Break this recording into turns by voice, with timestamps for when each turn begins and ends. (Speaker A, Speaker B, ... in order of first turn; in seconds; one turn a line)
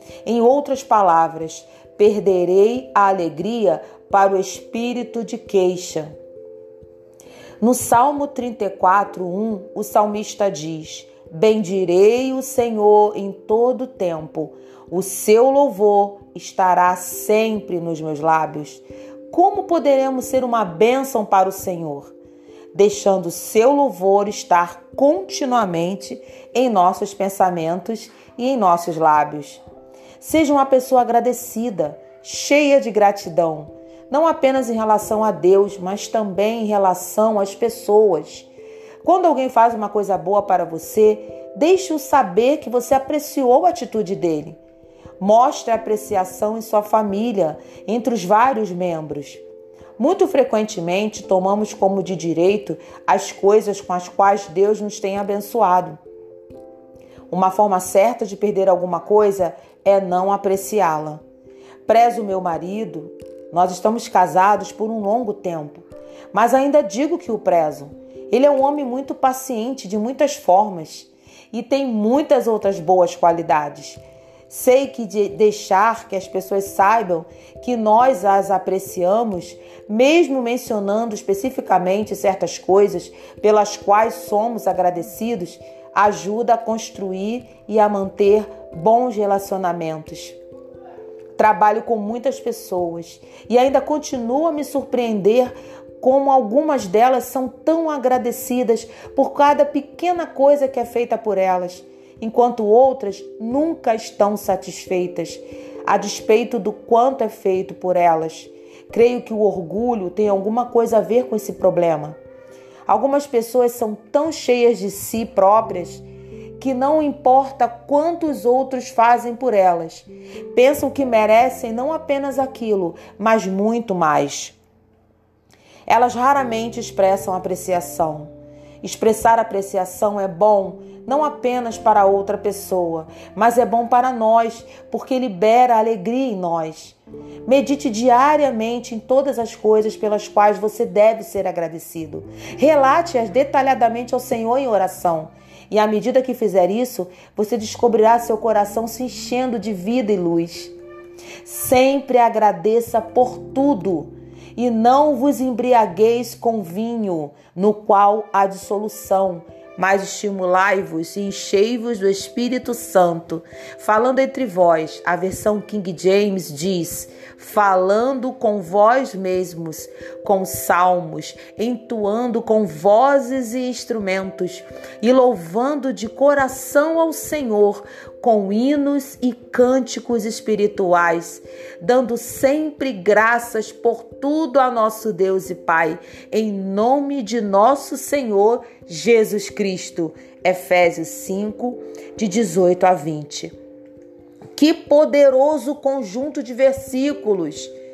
Speaker A: 0.2-6.1
Speaker A: 7.6-22.1
Speaker A: 22.7-29.6
Speaker A: 30.2-38.5
Speaker A: 39.0-44.6
Speaker A: 45.2-49.4
Speaker A: 50.0-56.0
Speaker A: 57.3-61.2
Speaker A: 61.9-90.4
Speaker A: 91.4-112.2
Speaker A: 112.9-116.0
Speaker A: 116.6-124.5
Speaker A: 125.9-128.3
Speaker A: 128.8-150.7
Speaker A: 151.4-193.5
Speaker A: 194.5-197.7